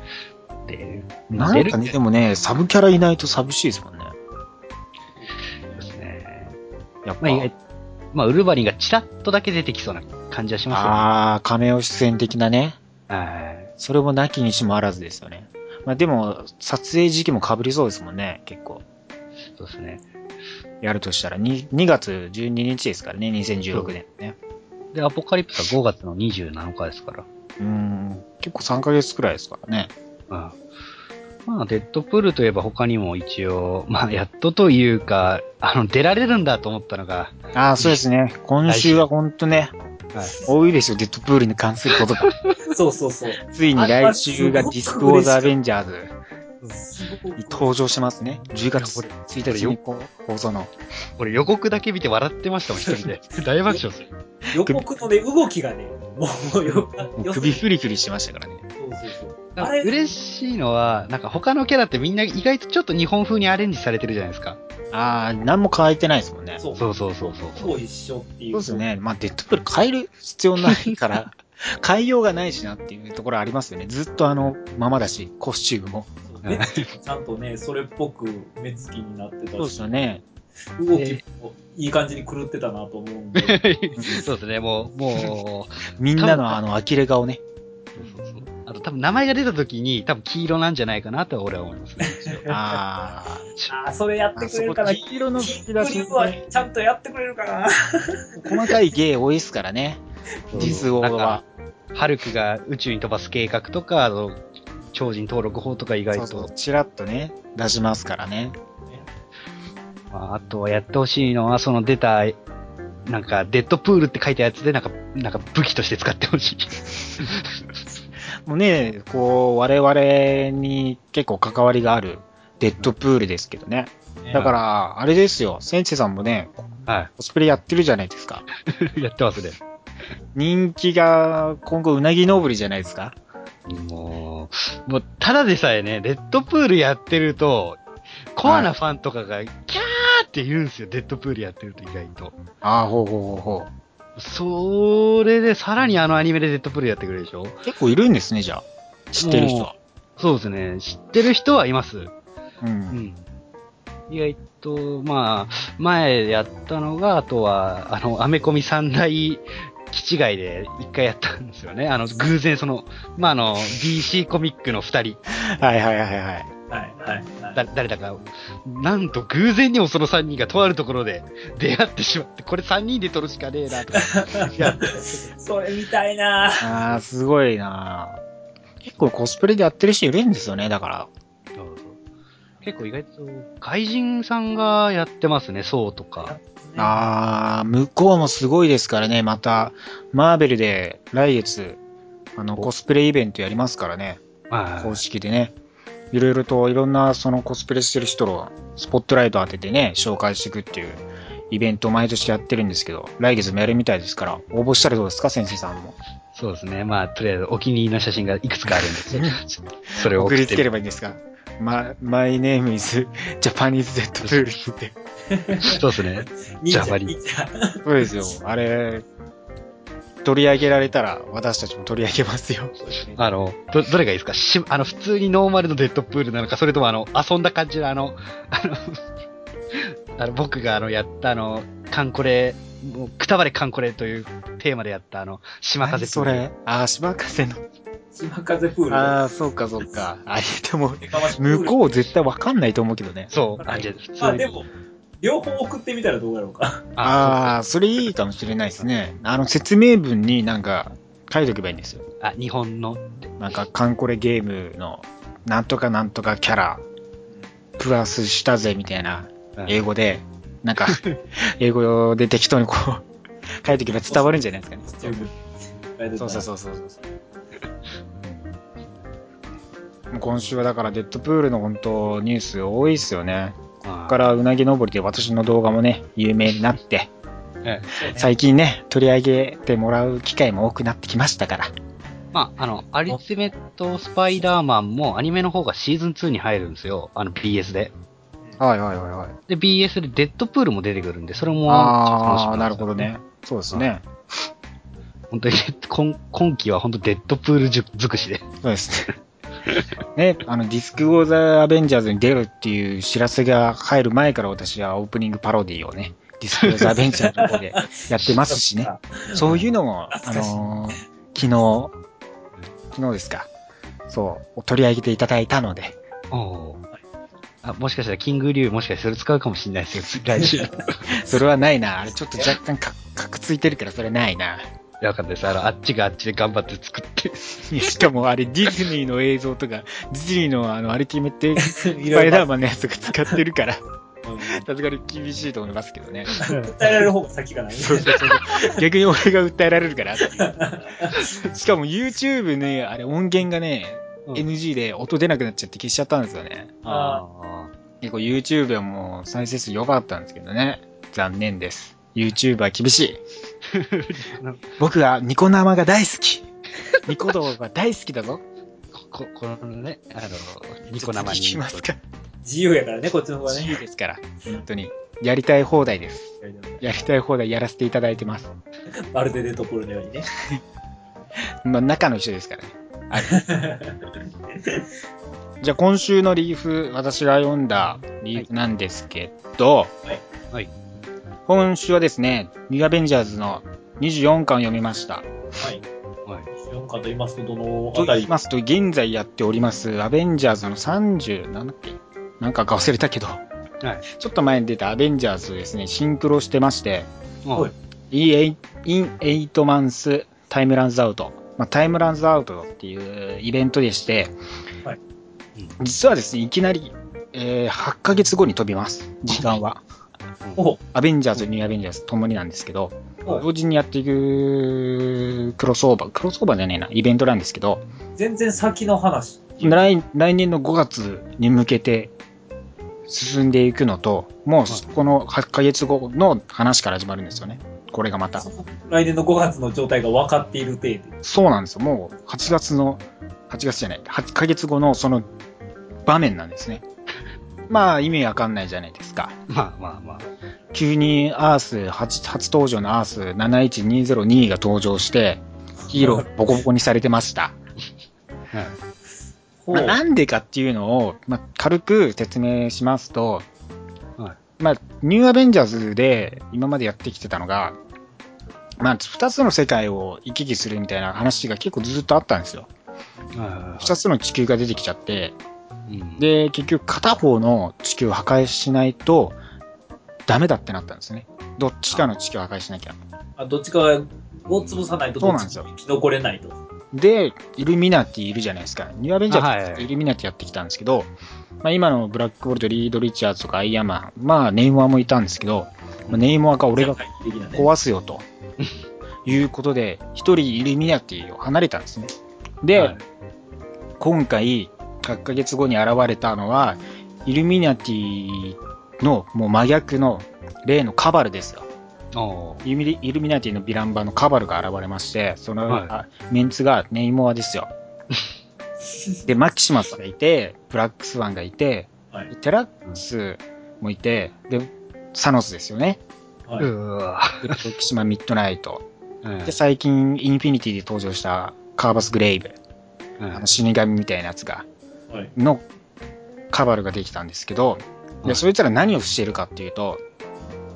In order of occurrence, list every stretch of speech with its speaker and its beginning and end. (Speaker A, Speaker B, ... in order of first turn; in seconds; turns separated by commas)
Speaker A: 0.7-1.9, Speaker B: 1.3-4.1, Speaker A: 5.7-6.5, Speaker B: 7.0-7.5, Speaker A: 7.2-7.5, Speaker A: 8.1-11.1, Speaker B: 10.7-12.8, Speaker A: 13.1-13.7, Speaker B: 13.8-18.8, Speaker A: 19.6-20.0, Speaker B: 20.8-24.4, Speaker A: 24.9-27.2, Speaker B: 27.6-29.9, Speaker A: 30.3-30.6, Speaker A: 31.4-38.0, Speaker B: 37.5-39.7, Speaker A: 38.6-39.1, Speaker B: 40.5-42.3, Speaker A: 42.2-42.6, Speaker C: 42.7-45.5, Speaker B: 43.5-46.1, Speaker C: 46.7-47.7, Speaker B: 47.4-50.7, Speaker A: 48.8-49.8, Speaker A: 51.2-54.1, Speaker C: 54.5-57.6, Speaker B: 57.2-58.6, Speaker C: 58.8-59.9, Speaker A: 59.5-64.6, Speaker B: 64.9-66.6, Speaker C: 66.6-68.8, Speaker A: 66.8-67.8, Speaker B: 68.5-76.1, Speaker C: 76.3-79.8, Speaker A: 76.4-76.9, Speaker B: 79.6-80.2, Speaker C: 80.8-83.6, Speaker A: 80.9-81.2, Speaker A: 83.3-86.6, Speaker B: 84.0-84.2, Speaker B: 86.0-87.4, Speaker A: 88.0-92.5, Speaker C: 92.0-92.6, Speaker B: 92.5-93.5, Speaker C: 93.7-98.8, Speaker B: 94.4-96.4, Speaker B: 98.4-100.0, Speaker C: 100.5-100.8, Speaker A: 100.5-101.4, Speaker B: 100.5-101.4, Speaker A: 101.9-104.4, Speaker A: 104.9-106.5, Speaker B: 106.1-108.5, Speaker A: 110.1-112.4, Speaker A: 113.1-117.7, Speaker B: 118.4-126.6, Speaker A: 126.9-127.1, Speaker B: 127.2-128.4, Speaker A: 128.7-129.6, Speaker B: 130.3-133.2, Speaker A: 133.7-137.8, Speaker A: 138.3-142.4, Speaker B: 138.4-138.7, Speaker B: 142.6-143.7, Speaker A: 144.2-147.6, Speaker B: 147.7-149.7, Speaker A: 149.2-152.1, Speaker B: 152.6-153.0, Speaker A: 152.9-153.2, Speaker A: 154.1-165.2, Speaker B: 165.3-166.5, Speaker C: 166.7-167.6, Speaker A: 167.5-175.2, Speaker C: 173.9-176.7, Speaker B: 176.6-178.2, Speaker B: 178.8-181.1, Speaker A: 181.6-182.0, Speaker A: 182.6-186.3, Speaker C: 186.2-186.9, Speaker B: 186.8-191.8, Speaker B: 192.4-194.2, Speaker A: 194.5-195.0, Speaker B: 194.8-195.5, Speaker B: 196.1-205.9, Speaker A: 206.3-210.7, Speaker B: 208.8-209.4, Speaker B: 209.9-214.9, Speaker A: 214.2-214.5, Speaker C: 215.3-215.8, Speaker A: 215.6-217.1, Speaker C: 216.6-218.2, Speaker B: 217.8-219.0, Speaker B: 220.2-222.7, Speaker C: 222.8-223.2, Speaker A: 223.2-229.0, Speaker A: 229.7-236.4, Speaker B: 235.8-237.6, Speaker C: 238.1-239.2, Speaker B: 238.9-243.3, Speaker C: 241.0-241.9, Speaker A: 243.3-244.6, Speaker C: 243.6-244.7, Speaker C: 245.2-246.9, Speaker A: 247.0-247.5, Speaker B: 247.0-252.0, Speaker A: 252.2-253.3, Speaker B: 253.4-256.8, Speaker B: 257.8-263.0, Speaker A: 260.9-261.2, Speaker B: 263.6-265.3, Speaker C: 264.1-265.4, Speaker C: 266.0-266.5, Speaker B: 266.2-267.0, Speaker B: 270.1-273.6, Speaker A: 273.8-274.2, Speaker B: 274.1-277.1, Speaker C: 277.9-278.3, Speaker B: 278.1-281.7, Speaker A: 282.3-287.9, Speaker B: 288.6-289.4, Speaker A: 289.5-293.1, Speaker B: 291.7-294.0, Speaker A: 295.3-298.4, Speaker B: 298.6-299.1, Speaker B: 300.1-311.9, Speaker C: 307.2-309.4, Speaker C: 310.1-310.5, Speaker B: 312.9-313.5, Speaker B: 314.1-315.9, Speaker A: 316.3-316.8, Speaker A: 317.6-321.1, Speaker B: 321.1-324.6, Speaker A: 325.0-327.7, Speaker B: 327.7-333.8, Speaker C: 331.6-332.5, Speaker C: 334.2-334.6, Speaker B: 334.4-336.3, Speaker C: 336.4-338.8, Speaker A: 336.4-336.7, Speaker B: 337.8-340.5, Speaker C: 340.2-341.2, Speaker B: 341.2-346.7, Speaker C: 346.8-347.2, Speaker A: 346.9-347.7, Speaker B: 348.0-353.2, Speaker A: 353.7-354.6, Speaker B: 354.8-356.5, Speaker B: 357.0-358.4, Speaker A: 358.9-361.9, Speaker B: 360.9-362.0, Speaker C: 362.4-363.8, Speaker B: 363.5-368.5, Speaker C: 366.4-367.0, Speaker C: 369.1-370.3, Speaker B: 371.6-373.4, Speaker C: 373.2-373.9, Speaker B: 375.6-379.9, Speaker B: 381.5-385.3, Speaker C: 386.6-388.3, Speaker B: 387.9-393.4, Speaker B: 394.1-397.1, Speaker B: 398.1-404.3, Speaker B: 405.8-409.8, Speaker B: 410.9-417.8, Speaker C: 418.2-419.9, Speaker B: 419.6-422.1, Speaker B: 423.1-428.4, Speaker C: 428.4-431.1, Speaker B: 431.2-435.2, Speaker B: 436.1-436.8, Speaker B: 437.7-439.4, Speaker A: 439.5-440.3, Speaker B: 440.7-447.6, Speaker C: 445.8-446.3, Speaker C: 449.6-450.0, Speaker B: 449.7-453.5, Speaker B: 454.6-457.8, Speaker B: 458.8-462.7, Speaker A: 463.4-464.0, Speaker B: 463.8-465.4, Speaker A: 465.9-466.2, Speaker B: 466.2-469.4, Speaker B: 470.3-473.0, Speaker C: 473.4-476.6, Speaker A: 474.5-474.8, Speaker B: 475.2-475.7, Speaker B: 476.9-481.1, Speaker A: 479.3-479.9, Speaker B: 481.6-487.0, Speaker C: 486.8-487.7, Speaker B: 487.5-488.2, Speaker B: 489.2-492.9, Speaker A: 492.7-493.0, Speaker B: 494.0-501.7, Speaker A: 502.1-502.6, Speaker B: 502.6-507.7, Speaker A: 505.7-505.9, Speaker B: 509.2-516.0, Speaker A: 516.6-517.6, Speaker B: 517.4-518.8, Speaker A: 519.2-519.5, Speaker B: 519.4-522.6, Speaker A: 523.2-523.5, Speaker B: 523.3-524.6, Speaker B: 525.4-525.6, Speaker B: 526.5-530.0